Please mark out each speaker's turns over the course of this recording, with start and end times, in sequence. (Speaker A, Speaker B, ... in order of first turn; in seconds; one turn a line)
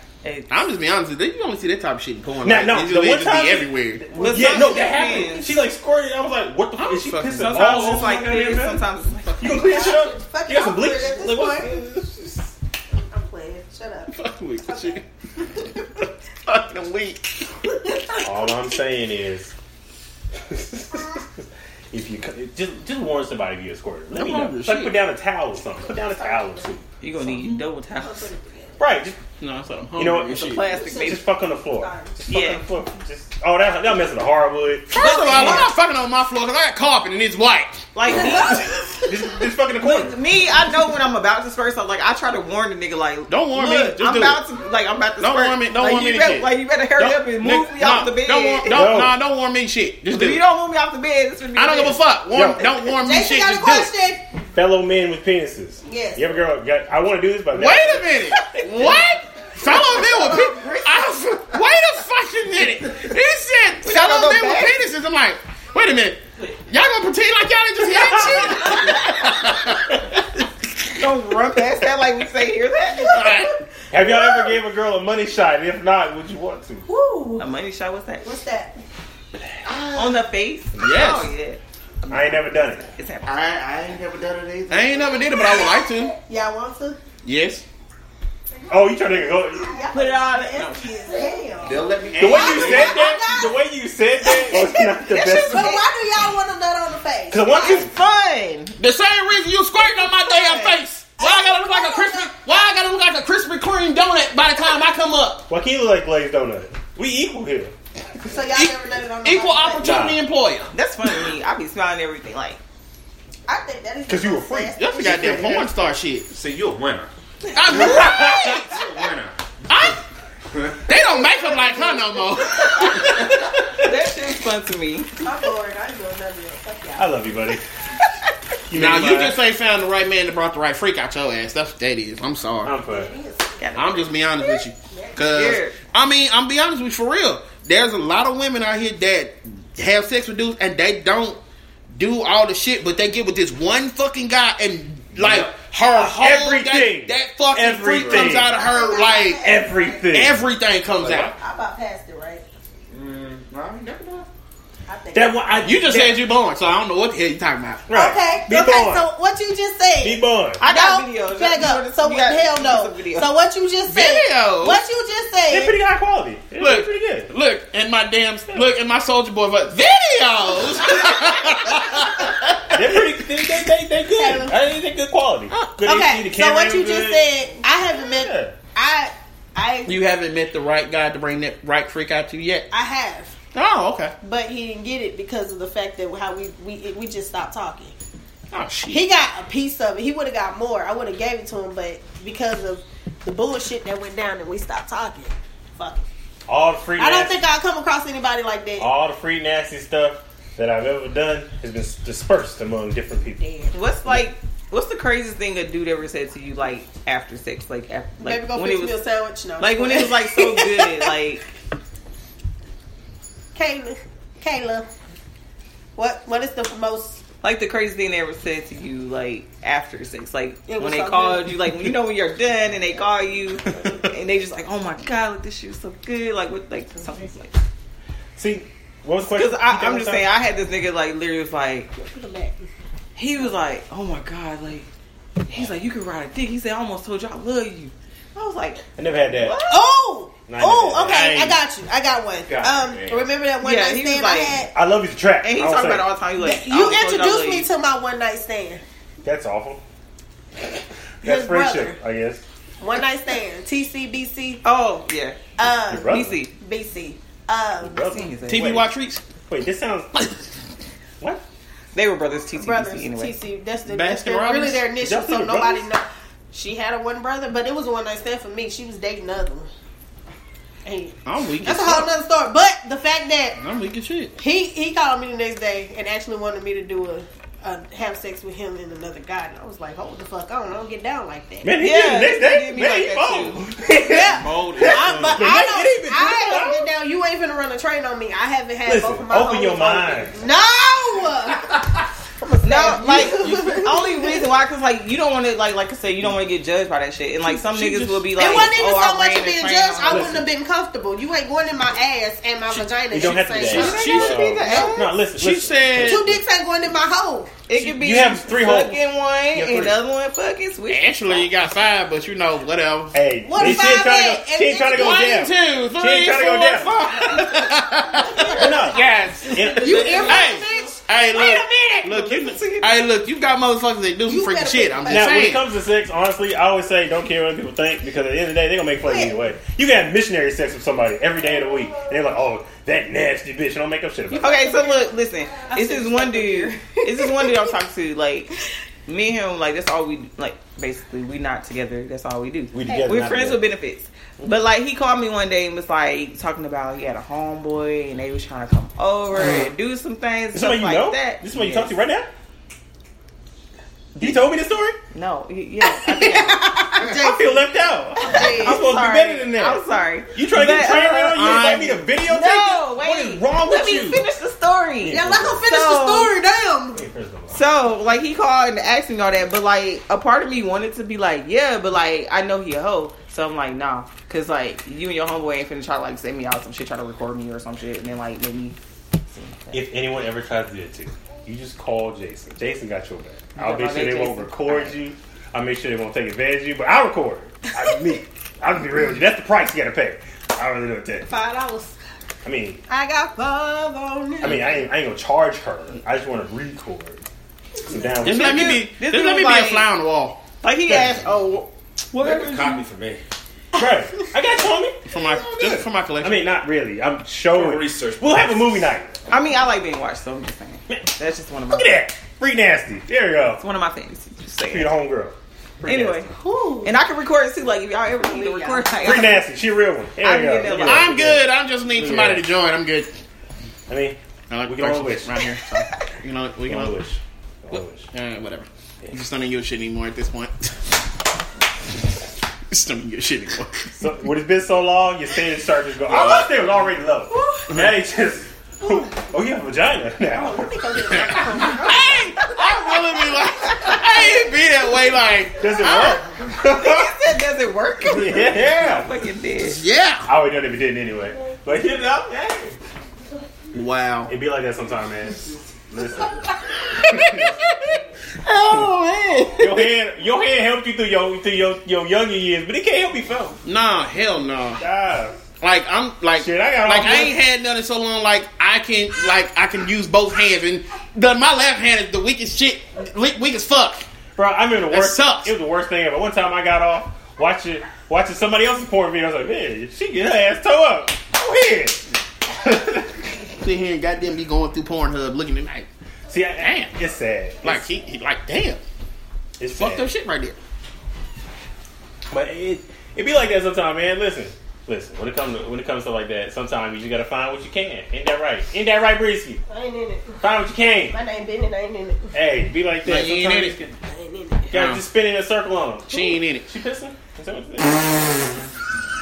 Speaker A: 0.2-0.5
Speaker B: 0.5-4.2
Speaker C: 2.4-8.8
Speaker A: 4.1-5.5
Speaker B: 6.8-8.2
Speaker A: 7.4-9.8
Speaker C: 9.4-12.5
Speaker D: 9.4-11.8
Speaker D: 13.1-15.0
Speaker B: 14.1-15.0
Speaker B: 15.8-17.5
Speaker D: 17.7-18.5
Speaker C: 18.2-19.5
Speaker C: 20.4-26.9
Speaker B: 24.1-25.0
Speaker A: 27.0-28.3
Speaker D: 27.9-28.8
Speaker C: 28.8-29.2
Speaker B: 29.4-30.6
Speaker C: 30.0-35.7
Speaker A: 30.4-31.2
Speaker D: 30.7-32.2
Speaker A: 32.3-32.6
Speaker B: 34.9-38.5
Speaker A: 35.0-35.7
Speaker A: 38.0-39.0
Speaker D: 38.1-38.7
Speaker C: 39.0-40.2
Speaker A: 39.8-48.9
Speaker B: 43.3-44.4
Speaker B: 45.2-50.4
Speaker C: 48.7-49.2
Speaker A: 50.1-52.0
Speaker B: 51.5-53.9
Speaker C: 52.3-52.7
Speaker D: 53.0-54.2
Speaker C: 54.5-58.2
Speaker D: 55.9-56.4
Speaker B: 57.5-70.0
Speaker A: 63.9-64.7
Speaker C: 68.0-68.8
Speaker A: 68.5-69.0
Speaker A: 71.0-73.3
Speaker B: 73.1-73.5
Speaker D: 73.1-74.6
Speaker C: 73.9-76.9
Speaker D: 76.9-77.5
Speaker A: 77.4-78.3
Speaker D: 78.2-78.8
Speaker E: 79.7-80.3
Speaker A: 79.9-81.6
Speaker B: 80.8-81.3
Speaker C: 82.1-82.8
Speaker A: 82.1-83.3
Speaker E: 83.2-85.3
Speaker B: 84.7-86.1
Speaker D: 85.5-87.0
Speaker B: 87.2-87.6
Speaker C: 88.7-89.8
Speaker D: 89.6-93.6
Speaker A: 89.9-91.0
Speaker E: 91.7-93.0
Speaker C: 92.2-95.8
Speaker D: 94.2-97.9
Speaker A: 95.1-95.8
Speaker C: 97.3-97.9
Speaker A: 97.5-98.8
Speaker B: 98.8-105.5
Speaker A: 100.0-100.7
Speaker D: 101.2-102.3
Speaker C: 105.5-107.7
Speaker D: 108.2-110.0
Speaker B: 108.5-110.7
Speaker C: 109.8-110.2
Speaker A: 110.7-112.6
Speaker D: 113.5-115.4
Speaker C: 114.1-115.7
Speaker B: 114.8-116.3
Speaker E: 116.3-117.1
Speaker B: 117.5-118.7
Speaker A: 117.6-118.1
Speaker C: 117.8-118.5
Speaker E: 117.8-119.9
Speaker B: 119.7-120.0
Speaker E: 120.5-120.9
Speaker B: 120.9-123.6
Speaker D: 121.0-122.2
Speaker A: 123.7-125.1
Speaker D: 125.2-127.1
Speaker C: 127.0-127.6
Speaker C: 128.7-129.4
Speaker B: 128.7-132.7
Speaker C: 132.6-133.1
Speaker D: 132.8-133.6
Speaker A: 133.6-134.1
Speaker B: 133.8-141.4
Speaker D: 134.9-135.2
Speaker A: 135.2-135.8
Speaker B: 141.9-149.4
Speaker E: 145.2-145.5
Speaker C: 145.9-148.5
Speaker D: 148.2-150.1
Speaker C: 149.4-150.4
Speaker B: 150.1-151.3
Speaker E: 151.0-151.3
Speaker D: 151.4-152.4
Speaker E: 152.9-154.3
Speaker D: 154.9-155.6
Speaker C: 155.1-156.2
Speaker B: 155.6-157.9
Speaker C: 157.9-159.1
Speaker D: 157.9-165.8
Speaker C: 160.0-160.6
Speaker A: 160.6-163.3
Speaker B: 163.9-164.8
Speaker C: 165.5-167.3
Speaker B: 166.6-172.8
Speaker C: 172.7-178.5
Speaker D: 174.1-174.5
Speaker D: 175.8-180.0
Speaker B: 179.9-182.7
Speaker D: 182.7-183.3
Speaker B: 183.5-184.1
Speaker D: 184.2-187.9
Speaker B: 188.5-189.1
Speaker D: 188.9-196.0
Speaker C: 196.5-197.4
Speaker D: 197.0-198.9
Speaker C: 198.8-203.4
Speaker D: 203.4-203.7
Speaker A: 203.7-209.0
Speaker D: 208.2-211.1
Speaker A: 209.6-211.4
Speaker D: 213.6-214.9
Speaker D: 216.0-217.2
Speaker A: 217.4-227.6
Speaker D: 220.7-221.6
Speaker C: 228.4-230.3
Speaker A: 229.3-231.9
Speaker D: 231.9-232.7
Speaker A: 233.2-234.9
Speaker A: 235.5-239.9
Speaker C: 239.0-239.6
Speaker D: 239.7-244.7
Speaker C: 240.5-241.6
Speaker E: 242.5-243.3
Speaker A: 243.6-244.6
Speaker C: 244.7-246.1
Speaker A: 245.4-247.7
Speaker D: 246.4-248.8
Speaker C: 249.2-249.8
Speaker C: 250.7-252.4
Speaker D: 251.2-252.0
Speaker D: 252.8-254.6
Speaker A: 254.6-256.5
Speaker D: 255.6-258.1
Speaker C: 255.9-256.4
Speaker C: 257.8-258.9
Speaker A: 258.1-258.8
Speaker B: 258.5-259.2
Speaker C: 259.5-260.3
Speaker A: 261.9-263.4
Speaker D: 262.6-269.7
Speaker B: 263.9-264.8
Speaker C: 265.0-265.9
Speaker D: 270.9-273.6
Speaker B: 271.3-272.1
Speaker B: 273.6-274.3
Speaker D: 274.4-281.8
Speaker C: 281.6-286.9
Speaker A: 281.8-283.6
Speaker D: 284.0-291.8
Speaker B: 284.2-285.4
Speaker C: 288.9-290.4
Speaker D: 292.4-294.5
Speaker A: 292.6-300.4
Speaker B: 297.4-298.6
Speaker D: 298.4-304.1
Speaker C: 300.1-300.4
Speaker C: 303.1-306.4
Speaker B: 303.6-306.3
Speaker A: 303.7-305.1
Speaker D: 304.6-305.0
Speaker D: 306.0-307.5
Speaker A: 307.7-311.5
Speaker C: 307.8-309.0
Speaker C: 309.5-310.0
Speaker B: 310.9-313.8
Speaker C: 313.1-317.4
Speaker D: 313.4-315.3
Speaker B: 314.9-325.6
Speaker D: 318.2-318.7
Speaker C: 318.5-320.4
Speaker A: 319.7-320.6
Speaker D: 319.7-321.0
Speaker A: 321.3-323.0
Speaker D: 324.3-325.6
Speaker C: 325.1-334.7
Speaker D: 329.1-329.4
Speaker D: 334.4-335.0
Speaker A: 334.4-338.5
Speaker D: 335.6-337.7
Speaker A: 339.1-351.9
Speaker C: 342.7-343.7
Speaker C: 350.5-352.3
Speaker C: 354.2-355.0
Speaker A: 355.1-356.7
Speaker D: 355.8-357.7
Speaker C: 357.0-359.8
Speaker D: 358.2-358.9
Speaker A: 358.3-366.3
Speaker C: 360.3-364.2
Speaker B: 361.3-362.0
Speaker C: 365.0-365.7
Speaker D: 365.1-367.0
Speaker C: 366.9-367.6
Speaker A: 367.5-379.8
Speaker C: 379.7-391.3
Speaker A: 383.6-384.9
Speaker D: 391.3-392.0
Speaker C: 392.4-392.8
Speaker D: 392.9-394.8
Speaker C: 394.4-397.2
Speaker C: 397.9-398.8
Speaker B: 398.2-400.4
Speaker A: 398.3-399.9
Speaker A: 400.6-401.7
Speaker C: 400.9-401.2
Speaker B: 402.1-402.8
Speaker E: 402.1-403.2
Speaker C: 403.8-409.1
Speaker B: 405.1-406.4
Speaker E: 407.5-408.8
Speaker A: 409.3-412.0
Speaker C: 411.7-413.6
Speaker A: 413.6-414.9
Speaker C: 414.7-416.3
Speaker A: 415.9-416.3
Speaker D: 416.4-416.9
Speaker A: 416.8-419.4
Speaker D: 418.2-419.3
Speaker C: 419.0-422.5
Speaker A: 420.2-421.1
Speaker B: 420.6-423.1
Speaker C: 423.9-425.4
Speaker B: 424.5-427.0
Speaker C: 426.7-428.1
Speaker B: 427.7-430.9
Speaker B: 432.7-433.9
Speaker C: 434.0-441.4
Speaker B: 436.1-436.6
Speaker D: 438.8-439.1
Speaker D: 440.3-442.5
Speaker B: 441.1-446.2
Speaker A: 443.8-444.3
Speaker C: 445.6-447.1
Speaker A: 446.6-449.8
Speaker C: 448.0-449.1
Speaker B: 449.6-450.3
Speaker C: 450.2-452.7
Speaker B: 453.7-454.3
Speaker C: 454.3-456.5
Speaker B: 457.0-457.9
Speaker C: 457.0-457.6
Speaker B: 458.4-459.7
Speaker A: 458.7-458.9
Speaker C: 459.6-463.6
Speaker B: 463.6-464.8
Speaker C: 464.8-465.4
Speaker B: 465.6-474.1
Speaker C: 466.4-467.4
Speaker C: 474.4-483.4
Speaker B: 474.9-475.6
Speaker B: 483.6-485.9
Speaker C: 486.3-487.9
Speaker B: 486.6-486.9
Speaker B: 487.6-488.8
Speaker C: 489.6-490.1
Speaker B: 489.7-490.6
Speaker C: 492.3-499.6
Speaker D: 499.7-500.4
Speaker C: 500.4-501.2
Speaker D: 501.1-502.4
Speaker C: 502.3-503.9
Speaker B: 503.0-503.8
Speaker D: 504.0-504.7
Speaker B: 504.7-505.0
Speaker C: 504.7-508.2
Speaker B: 506.1-506.7